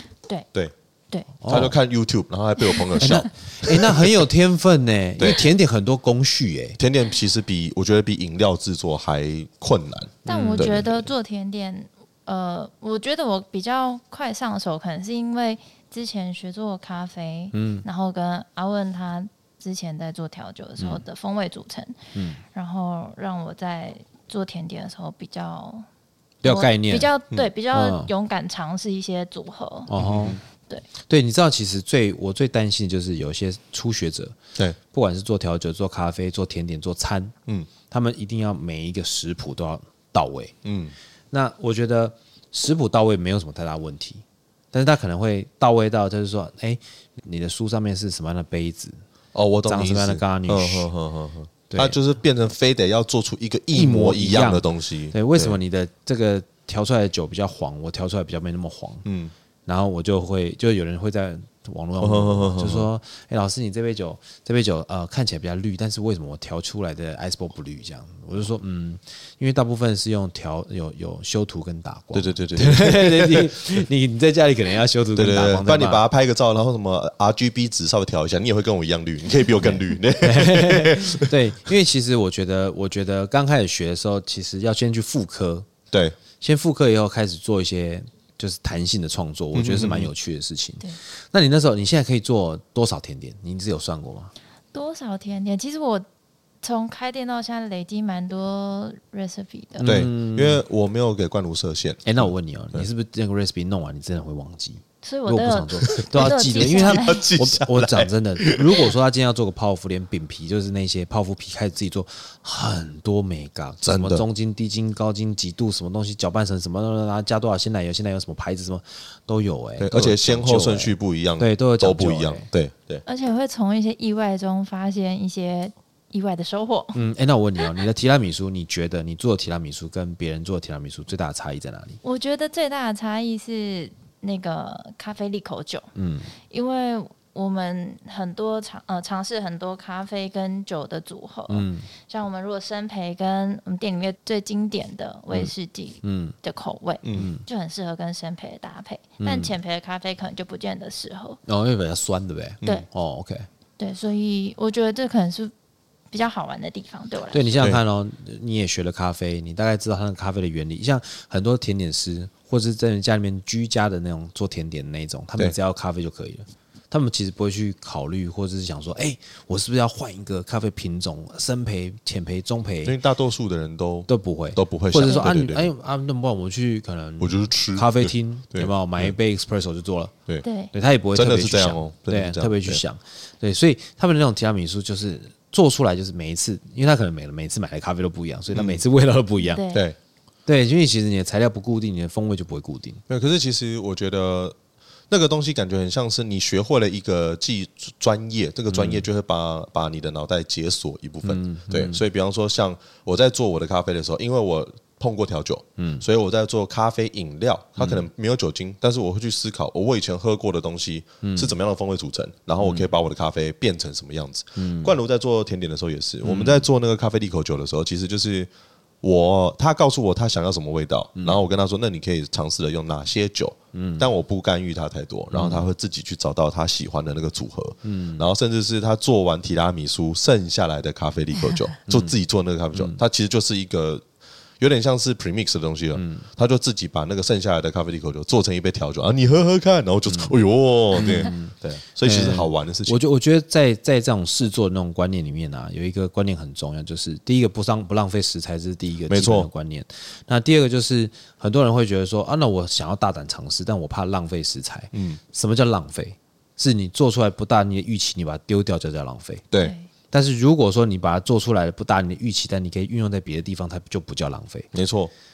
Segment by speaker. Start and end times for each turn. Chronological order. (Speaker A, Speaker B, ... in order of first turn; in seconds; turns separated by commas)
Speaker A: 1.4-1.8, Speaker B: 1.5-4.2, Speaker A: 3.0-6.8, Speaker B: 5.2-5.5, Speaker B: 6.8-10.9, Speaker A: 10.2-11.1, Speaker C: 10.3-22.0, Speaker A: 17.5-17.8, Speaker A: 22.1-22.4, Speaker C: 22.5-25.9, Speaker A: 26.4-27.1, Speaker C: 26.4-29.9, Speaker A: 27.7-28.1, Speaker A: 29.9-30.4, Speaker B: 30.0-30.4, Speaker A: 31.1-34.4, Speaker A: 34.9-37.3, Speaker A: 37.9-40.5, Speaker B: 40.6-40.9, Speaker A: 41.3-49.0, Speaker B: 49.3-55.6, Speaker A: 49.7-50.9, Speaker A: 51.7-52.0, Speaker A: 53.7-59.0, Speaker B: 59.0-59.3, Speaker A: 59.6-76.0, Speaker B: 62.0-62.9, Speaker B: 72.1-73.6, Speaker B: 75.2-81.3, Speaker A: 79.6-85.7, Speaker B: 85.9-86.2, Speaker A: 86.4-94.3, Speaker B: 89.5-90.1, Speaker C: 94.7-96.0, Speaker C: 96.6-99.9, Speaker A: 99.8-100.6, Speaker B: 99.8-102.8, Speaker A: 102.0-122.5, Speaker C: 105.0-107.3, Speaker B: 105.9-108.9, Speaker B: 113.8-114.2, Speaker B: 119.8-123.0, Speaker C: 123.0-127.0, Speaker A: 126.9-132.0, Speaker C: 132.0-135.9, Speaker A: 135.9-136.3, Speaker C: 136.5-151.4, Speaker A: 141.5-141.9, Speaker A: 146.0-146.3, Speaker B: 147.0-147.3, Speaker A: 147.2-147.4, Speaker A: 149.2-149.5, Speaker A: 151.5-153.5, Speaker C: 153.8-155.5, Speaker C: 156.1-157.5, Speaker A: 157.3-173.0, Speaker B: 172.8-175.7, Speaker A: 174.1-180.1, Speaker B: 177.2-179.1, Speaker C: 180.4-180.7, Speaker A: 180.7-189.6, Speaker B: 181.1-182.8, Speaker B: 188.5-188.8, Speaker C: 189.4-189.8, Speaker A: 190.5-193.0, Speaker B: 193.1-194.5, Speaker B: 195.1-218.5, Speaker A: 198.7-199.0, Speaker A: 201.2-202.0, Speaker A: 205.8-206.0, Speaker A: 207.8-208.0, Speaker A: 211.2-211.5, Speaker A: 212.6-212.9, Speaker A: 214.6-214.9, Speaker A: 216.2-216.6, Speaker B: 219.0-234.0, Speaker A: 223.7-224.0, Speaker A: 225.3-225.7, Speaker A: 227.8-228.2, Speaker A: 231.9-232.1, Speaker A: 232.7-233.0, Speaker B: 234.6-243.0, Speaker A: 235.9-236.2, Speaker A: 240.9-259.4, Speaker B: 249.1-249.5, Speaker B: 254.9-255.2, Speaker C: 259.6-259.9, Speaker A: 260.1-264.7, Speaker B: 264.7-265.1